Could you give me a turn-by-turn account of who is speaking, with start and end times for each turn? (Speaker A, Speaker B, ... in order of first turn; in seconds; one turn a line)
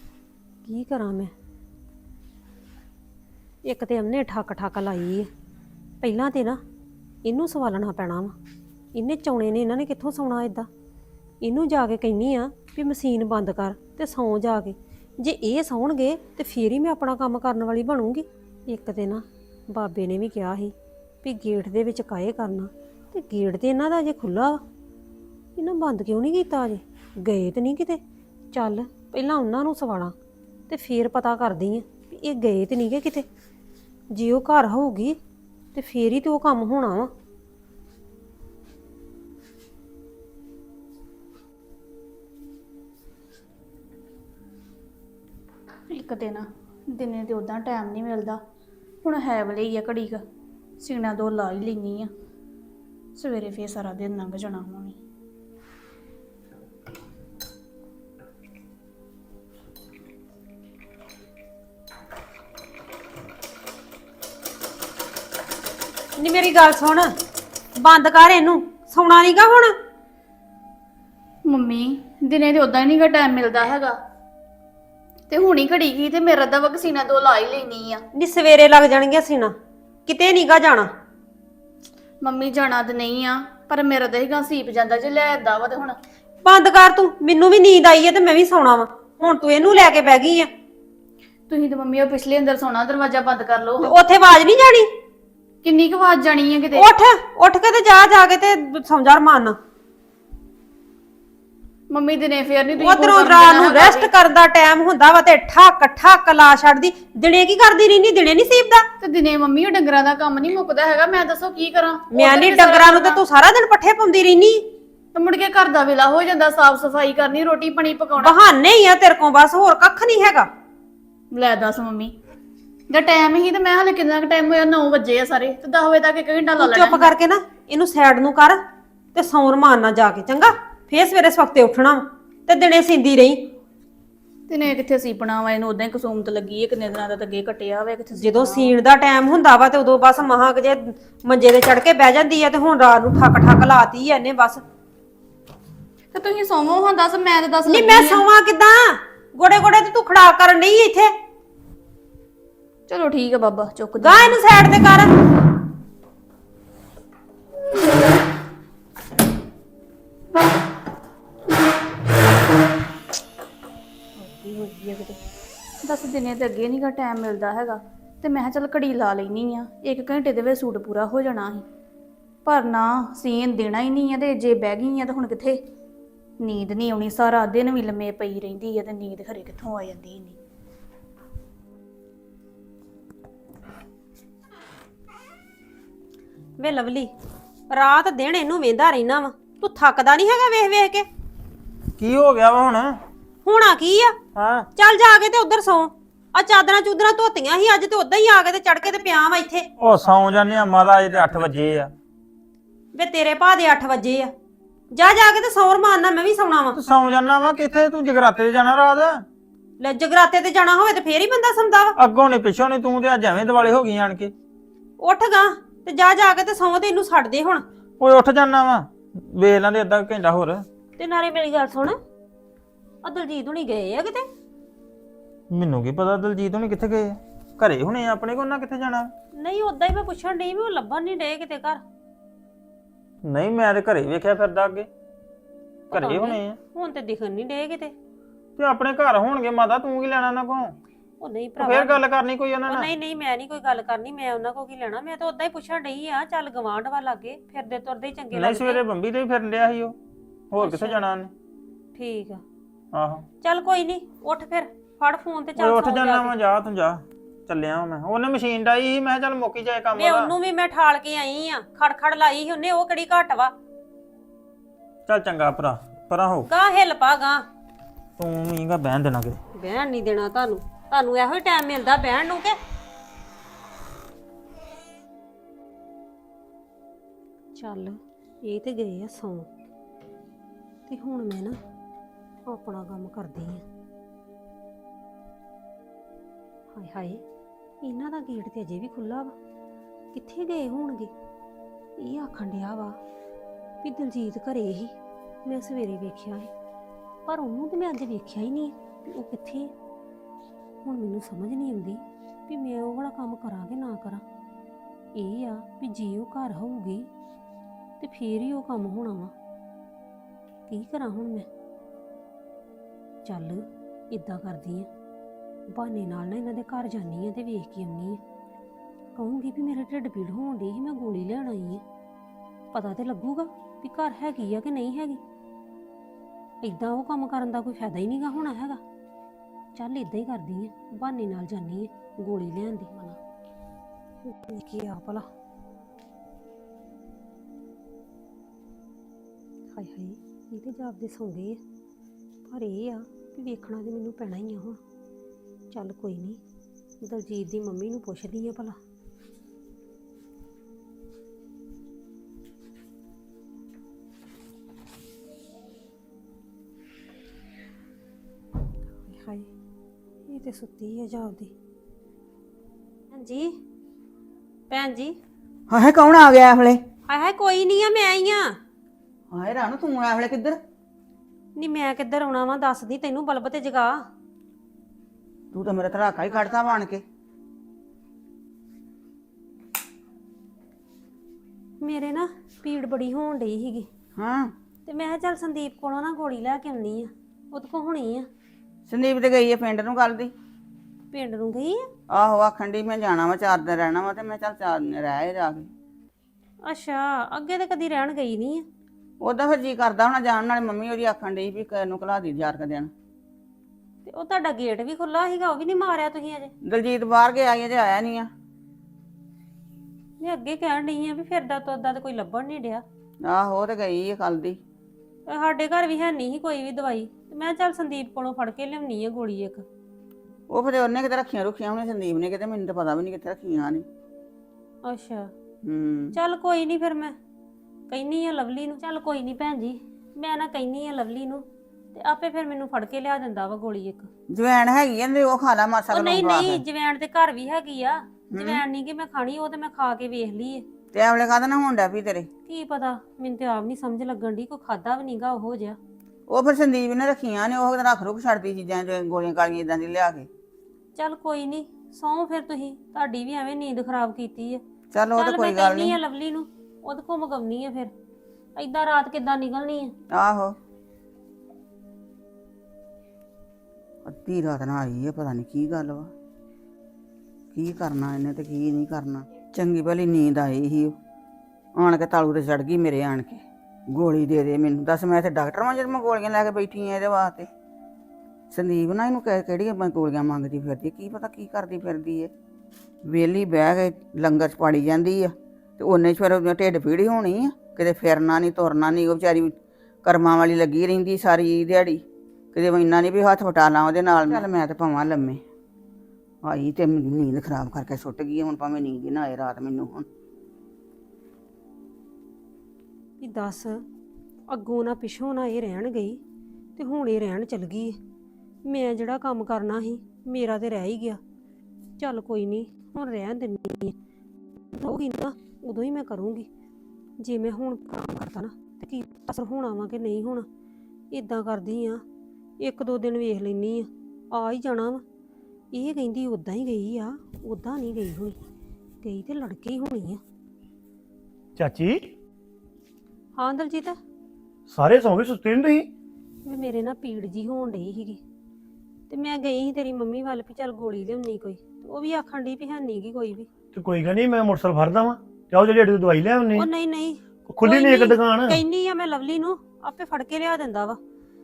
Speaker A: 0.6-1.3
Speaker A: 3.6-5.3
Speaker A: 6.0-6.6
Speaker A: 7.2-8.3
Speaker A: 8.9-10.7
Speaker A: 11.4-24.6
Speaker A: 25.6-28.0
Speaker A: 28.5-30.1
Speaker A: 30.7-33.2
Speaker A: 34.1-35.2
Speaker A: 35.7-37.1
Speaker B: 45.9-48.4
Speaker B: 49.0-50.2
Speaker B: 50.8-52.1
Speaker B: 53.2-55.0
Speaker A: 66.2-67.1
Speaker A: 67.8-69.7
Speaker B: 71.5-73.9
Speaker B: 75.3-78.0
Speaker A: 78.2-79.5
Speaker A: 80.0-80.9
Speaker B: 82.2-86.0
Speaker A: 86.4-90.5
Speaker B: 91.5-93.9
Speaker A: 93.8-94.9
Speaker B: 95.6-96.9
Speaker A: 96.7-99.6
Speaker B: 101.9-104.1
Speaker A: 102.8-108.8
Speaker B: 109.0-113.2
Speaker A: 112.1-114.6
Speaker B: 115.1-118.3
Speaker A: 118.2-120.5
Speaker B: 121.3-122.1
Speaker B: 122.9-127.1
Speaker A: 126.6-133.5
Speaker B: 134.5-138.8
Speaker A: 138.2-144.6
Speaker B: 146.1-148.2
Speaker A: 147.7-151.1
Speaker B: 152.9-154.4
Speaker A: 154.0-155.1
Speaker B: 164.2-165.2
Speaker B: 165.8-171.6
Speaker B: 172.4-175.6
Speaker B: 176.4-180.4
Speaker A: 186.6-187.1
Speaker A: 187.7-191.1
Speaker C: 192.0-193.0
Speaker A: 193.4-194.2
Speaker C: 194.3-194.7
Speaker A: 194.7-199.7
Speaker C: 199.8-201.9
Speaker A: 202.9-204.3
Speaker A: 204.9-206.8
Speaker C: 206.7-209.2
Speaker A: 209.8-211.9
Speaker C: 211.9-214.3
Speaker A: 215.0-217.6
Speaker C: 218.0-220.7
Speaker A: 221.0-221.9
Speaker A: 223.0-224.3
Speaker C: 225.5-229.1
Speaker A: 229.4-231.8
Speaker C: 233.2-234.9
Speaker A: 235.9-237.9
Speaker C: 235.9-236.6
Speaker C: 238.6-240.8
Speaker A: 241.2-242.0
Speaker C: 241.6-242.9
Speaker A: 242.7-248.8
Speaker C: 248.3-249.9
Speaker C: 250.5-251.3
Speaker A: 250.6-251.0
Speaker A: 251.9-252.4
Speaker C: 252.9-253.2
Speaker A: 253.4-256.3
Speaker C: 255.6-260.3
Speaker A: 259.9-263.5
Speaker C: 265.1-266.5
Speaker A: 266.5-267.4
Speaker C: 268.2-269.4
Speaker A: 269.6-272.6
Speaker A: 277.6-279.5
Speaker A: 280.9-281.6
Speaker A: 282.5-283.6
Speaker A: 286.7-287.2
Speaker A: 287.8-289.3
Speaker A: 290.1-291.1
Speaker A: 292.0-292.9
Speaker A: 293.8-294.9
Speaker A: 295.4-296.5
Speaker A: 297.2-299.7
Speaker A: 300.8-304.2
Speaker A: 305.2-307.1
Speaker A: 308.0-309.3
Speaker A: 310.7-311.5
Speaker A: 313.2-314.9
Speaker A: 315.7-318.2
Speaker A: 319.1-321.8
Speaker A: 322.7-325.2
Speaker A: 326.6-328.8
Speaker A: 329.7-333.2
Speaker A: 334.2-335.2
Speaker A: 339.7-341.6
Speaker A: 342.5-344.8
Speaker A: 345.7-346.4
Speaker A: 347.0-348.8
Speaker A: 359.0-359.5
Speaker A: 360.3-361.5
Speaker A: 363.1-363.5
Speaker A: 364.7-365.1
Speaker D: 365.7-366.8
Speaker A: 367.1-368.6
Speaker D: 369.3-370.6
Speaker A: 371.6-373.9
Speaker D: 375.5-377.0
Speaker A: 381.8-383.9
Speaker D: 384.1-384.5
Speaker A: 384.9-388.3
Speaker D: 388.9-390.3
Speaker A: 391.1-391.9
Speaker D: 392.1-395.7
Speaker A: 396.6-398.6
Speaker D: 399.2-402.9
Speaker A: 404.0-406.5
Speaker D: 406.6-408.3
Speaker A: 410.2-412.8
Speaker D: 413.2-414.6
Speaker A: 415.3-419.6
Speaker D: 420.5-423.8
Speaker A: 424.8-425.3
Speaker D: 425.6-426.1
Speaker A: 426.1-427.1
Speaker A: 427.9-434.1
Speaker D: 434.3-436.6
Speaker A: 435.9-440.6
Speaker D: 438.3-438.6
Speaker D: 440.9-442.3
Speaker A: 442.5-445.8
Speaker D: 446.3-450.3
Speaker A: 450.9-454.6
Speaker D: 454.9-456.0
Speaker A: 455.2-457.9
Speaker A: 458.6-459.9
Speaker D: 460.1-460.6
Speaker D: 464.0-466.1
Speaker D: 467.5-470.9
Speaker D: 471.8-477.5
Speaker D: 478.5-482.3
Speaker D: 483.0-492.0
Speaker D: 492.5-495.4
Speaker D: 496.4-500.1
Speaker A: 503.2-503.8
Speaker A: 504.5-506.2
Speaker A: 506.8-508.0
Speaker A: 508.6-511.2
Speaker A: 512.0-513.9
Speaker A: 514.7-516.5
Speaker A: 517.2-520.5
Speaker A: 521.1-522.0
Speaker A: 522.6-525.0
Speaker A: 525.7-528.4
Speaker A: 529.0-530.2
Speaker E: 531.5-532.0
Speaker A: 533.4-534.0
Speaker E: 534.7-535.9
Speaker A: 536.5-538.2
Speaker A: 539.1-543.5
Speaker E: 543.7-546.7
Speaker A: 546.5-551.0
Speaker E: 547.5-548.6